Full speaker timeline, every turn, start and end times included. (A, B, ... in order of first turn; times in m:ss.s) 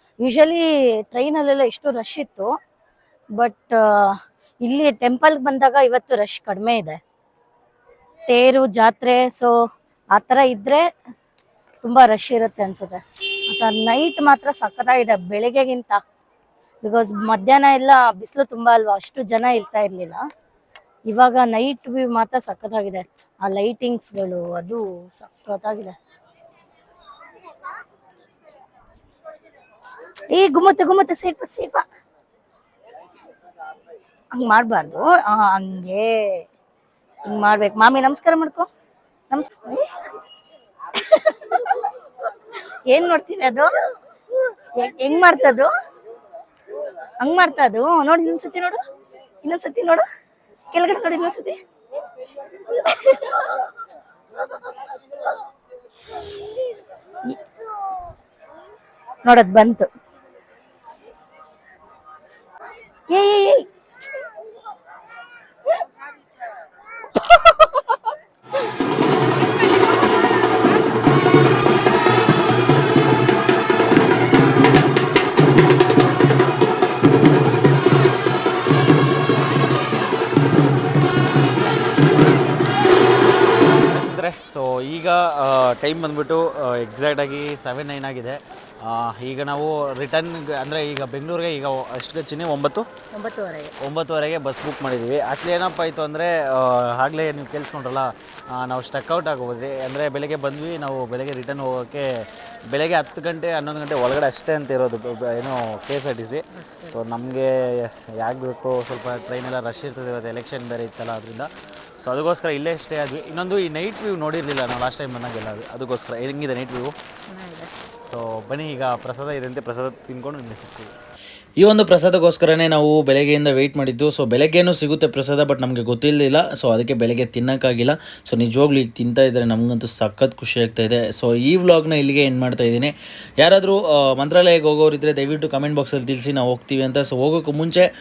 0:00.2-0:02.5 A
0:03.4-0:07.0 A
0:08.3-0:09.5 A
0:10.1-0:10.8 A
0:11.8-0:16.0 A
0:16.8-0:20.2 A
0:21.1-0:25.9 A
0:30.3-0:31.8 A
0:34.3-0:36.4 A
0:37.3-0:38.7 A
0:39.3-0:39.9 A
0:41.0-0:41.8 A
0:42.9-0:43.7 A
0:44.8-0:45.7 A
0:47.2-0:48.8 A
0:49.4-0:50.0 A
0:50.7-0:51.6 A
0:52.7-0:53.6 A
0:59.2-0:59.9 A
1:03.1-1:03.6 A
1:23.9-1:32.9 B
1:33.1-1:33.7 A
1:33.8-1:51.5 B
1:46.7-1:47.0 A
1:52.0-1:57.0 B
1:57.3-1:57.7 A
1:58.0-2:00.9 B
2:01.6-2:17.8 B